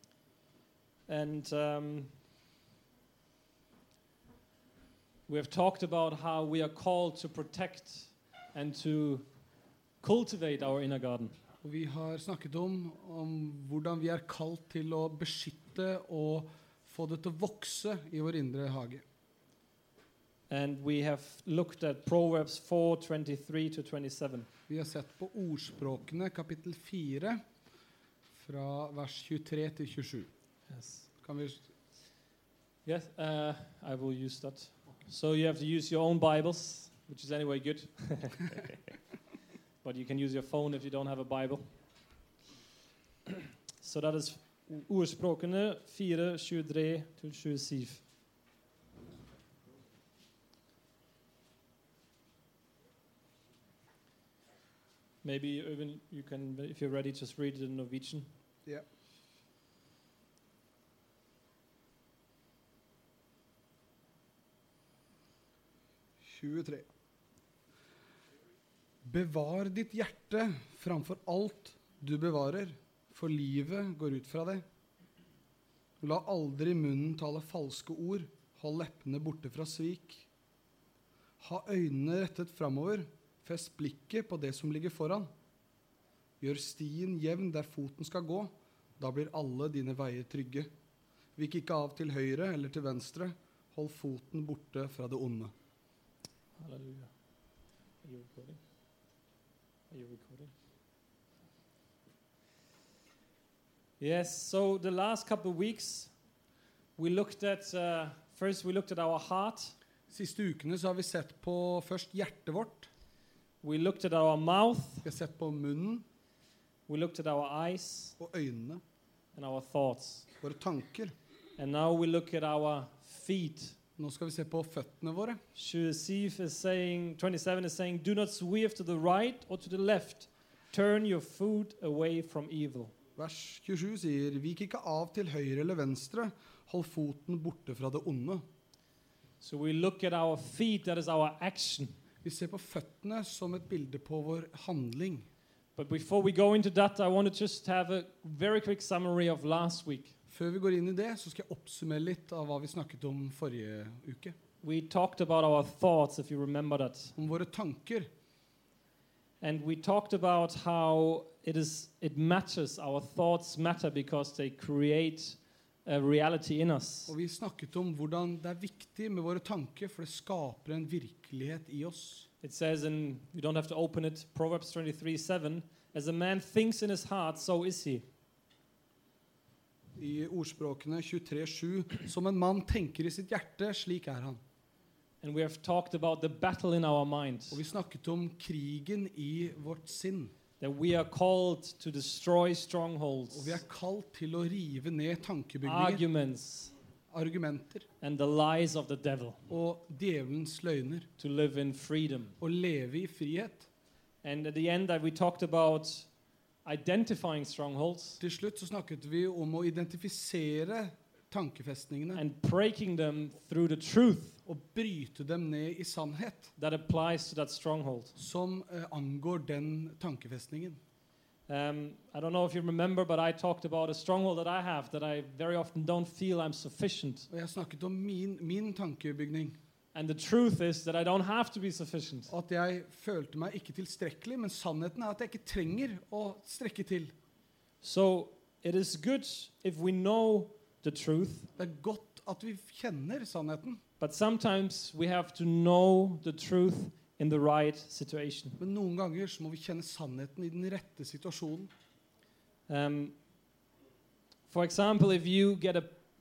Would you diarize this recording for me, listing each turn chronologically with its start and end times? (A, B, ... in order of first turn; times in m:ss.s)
0:01.1-0:02.1 A
0:05.3-0:09.2 A
0:10.0-0:11.4 A
0:11.6-0:19.0 B
0:20.5-0:24.5 A
0:24.7-0:27.4 B
0:28.3-0:30.3 B
0:30.7-0:31.1 A
0:31.2-0:31.6 B
0:32.8-0:38.8 A
0:39.8-0:41.6 A
0:43.3-0:48.0 A
0:55.2-0:58.3 A
1:06.2-1:06.9 B
1:09.0-1:14.6 B
1:16.0-1:20.3 B
1:21.4-1:25.3 B
1:26.4-1:30.7 B
1:31.4-1:35.5 B
1:36.6-1:37.1 A
1:38.0-1:38.6 A
1:39.9-1:40.5 A
1:44.0-1:46.1 A
1:47.0-1:49.8 A
1:50.1-1:52.9 B
1:53.6-1:55.1 A
1:55.0-1:56.0 B
1:56.9-1:58.2 A
1:58.2-1:58.8 B
1:59.4-2:00.3 A
2:00.4-2:01.1 B
2:01.6-2:03.8 A
2:04.0-2:05.4 B
2:05.5-2:12.9 A
2:13.2-2:18.4 B
2:19.4-2:21.9 A
2:22.2-2:25.3 B
2:25.8-2:30.2 A
2:30.3-2:34.3 B
2:34.6-2:37.1 A
2:37.2-2:38.1 B
2:39.4-2:47.1 A
2:47.1-2:52.3 B
2:52.4-2:58.0 A
3:00.0-3:04.4 B
3:05.2-3:07.6 A
3:07.5-3:10.3 B
3:10.6-3:13.6 A
3:13.3-3:16.0 B
3:15.6-3:16.7 A
3:17.1-3:17.8 B
3:18.0-3:19.4 A
3:19.5-3:21.1 B
3:21.2-3:22.4 A
3:22.4-3:23.7 B
3:24.2-3:26.1 A
3:26.6-3:28.2 A
3:28.2-3:32.2 B
3:32.1-3:34.4 A
3:34.4-3:36.5 B
3:36.6-3:38.2 A
3:38.2-3:40.8 B
3:41.5-3:47.3 A
3:47.3-3:49.6 B
3:49.9-3:52.3 A
3:52.3-3:57.1 B
3:57.8-4:01.5 A
4:01.6-4:03.8 B
4:04.0-4:08.6 A
4:08.6-4:11.7 B
4:12.7-4:13.1 A
4:14.5-4:15.9 A